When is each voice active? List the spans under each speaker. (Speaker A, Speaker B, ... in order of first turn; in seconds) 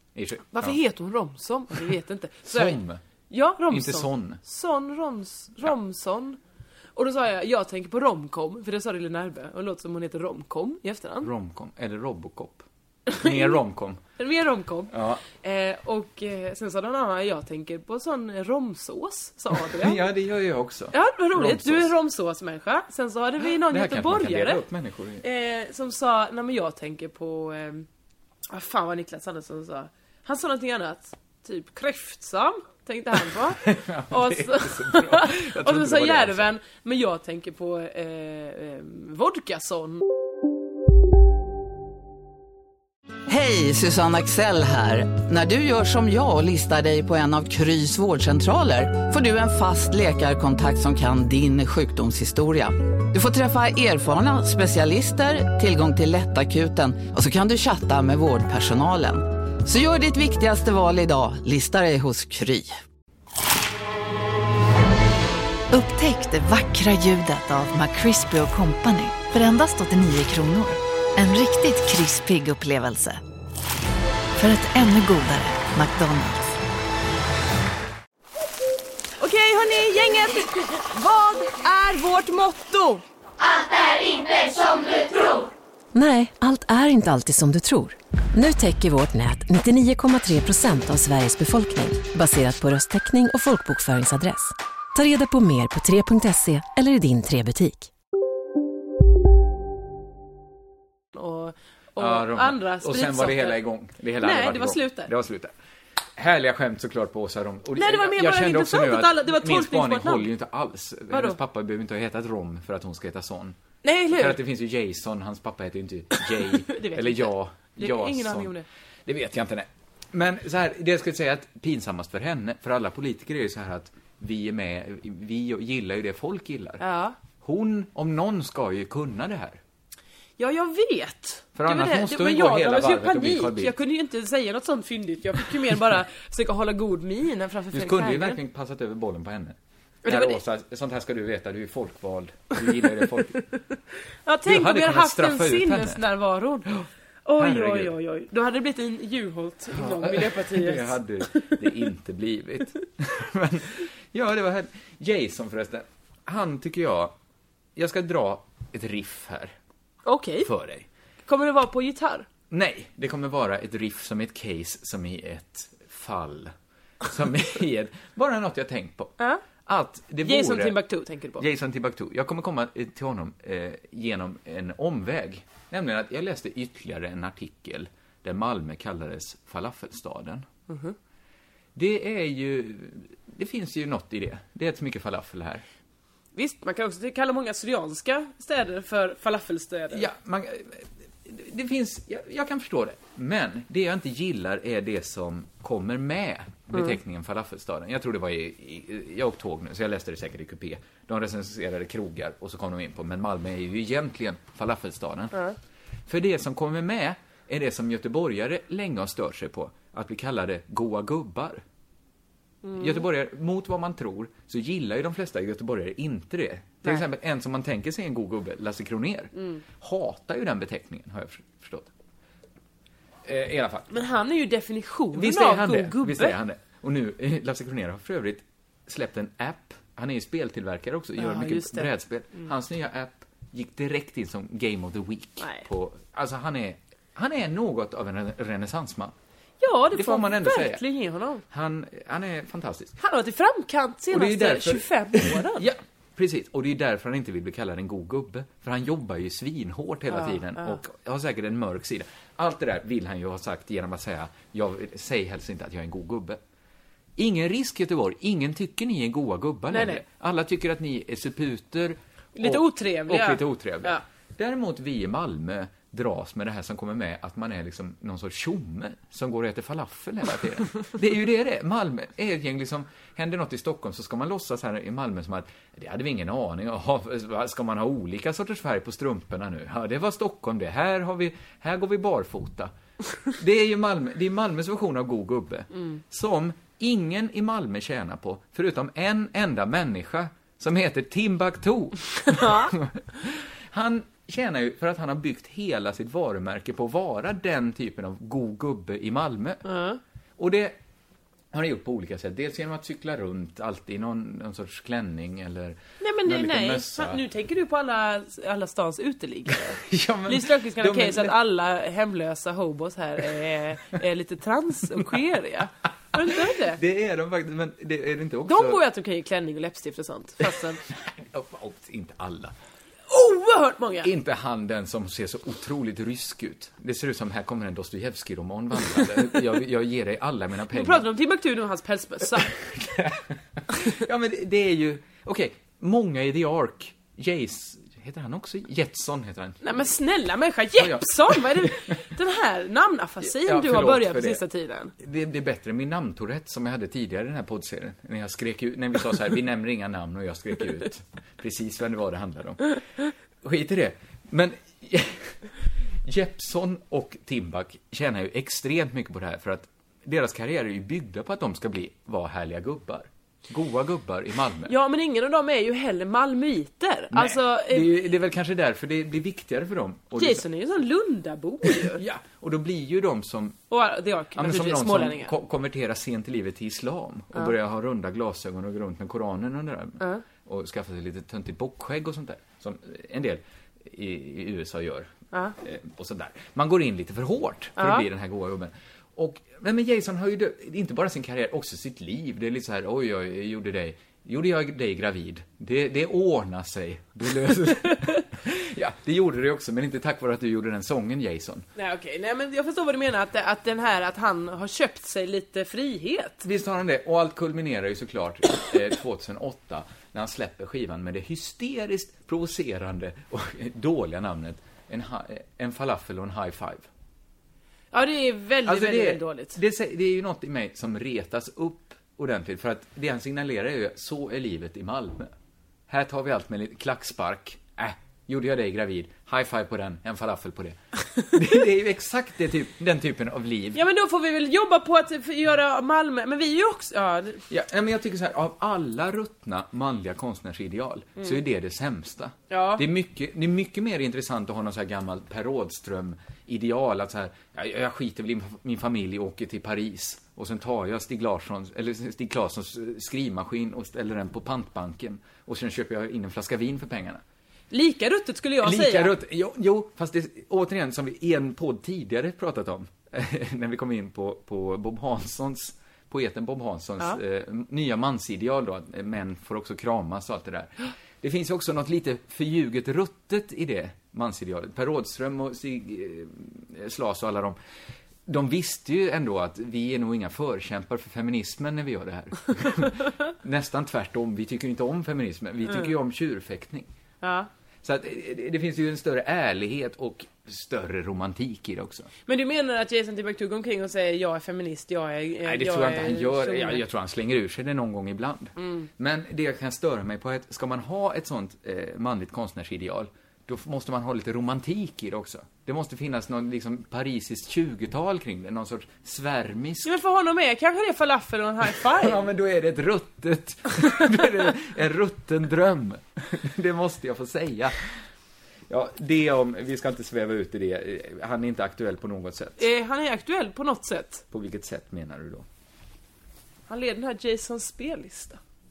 Speaker A: 0.1-0.8, 2.5-3.0, 3.7-4.4, 11.2-14.0, 14.9-15.2, 19.6-21.9, 23.4-25.2, 33.6-36.5, 102.0-105.5, 106.2-113.6, 114.1-118.5, 119.0-126.8, 127.4-129.6, 131.5-133.7, 137.7-143.4, 144.4-146.0, 147.4-147.9, 149.7-157.1, 157.8-159.5, 160.4-160.9, 162.5-170.8, 171.4-180.5, 181.7-185.6, 189.9-205.4, 206.1-211.6, 212.8-221.9, 223.2-224.0, 225.1-239.1, 239.9-240.8, 241.5-243.0, 244.1-256.4, 257.2-282.7, 283.3-299.6, 300.4-300.8, 301.5-307.2, 309.7-311.4, 316.6-318.8, 320.9-322.5, 324.0-331.1, 332.6-339.8, 340.8-341.8, 343.2-344.4, 345.0-352.8, 353.4-364.7, 367.1-370.4, 371.6-373.6, 374.3-401.7, 406.4-416.8, 418.6-425.3, 425.9-433.8, 437.5-457.2, 458.6-477.6, 478.3-486.9, 487.8-492.1, 495.4-509.9, 511.8-517.9, 518.7-522.7, 524.3-525.5
Speaker B: 0.5-2.8, 3.3-6.4, 7.0-11.3, 13.1-13.6, 14.2-20.0, 20.9-24.6, 25.2-27.9, 28.5-40.0, 79.2-83.0, 101.1-103.6, 104.2-105.1, 107.8-110.3, 111.1-111.4, 113.8-114.4, 116.6-118.7, 126.8-127.2, 130.4-138.4, 140.0-140.4, 144.2-151.6, 160.0-160.5, 161.2-162.3, 170.2-171.4, 180.7-180.9, 186.3-190.1, 212.6-212.9, 223.9-226.3, 231.2-231.9, 235.4-235.6, 239.6-241.4, 243.0-245.7, 250.1-250.8, 259.7-260.0, 262.4-264.0, 292.3-292.7, 299.6-300.0, 306.0-316.8, 318.5-320.8, 323.1-324.1, 330.7-332.6, 339.6-344.9, 364.7-367.9, 370.1-372.0, 373.7-375.3, 387.8-388.0, 401.8-406.4, 417.9-419.6, 433.7-437.4, 442.5-442.8, 457.7-459.1, 487.2-487.5, 492.3-496.8, 498.6-498.8, 509.8-512.3, 522.6-524.2, 526.7-528.4
Speaker C: 43.3-62.8
Speaker D: 65.7-73.2, 74.4-76.6
Speaker E: 85.9-97.9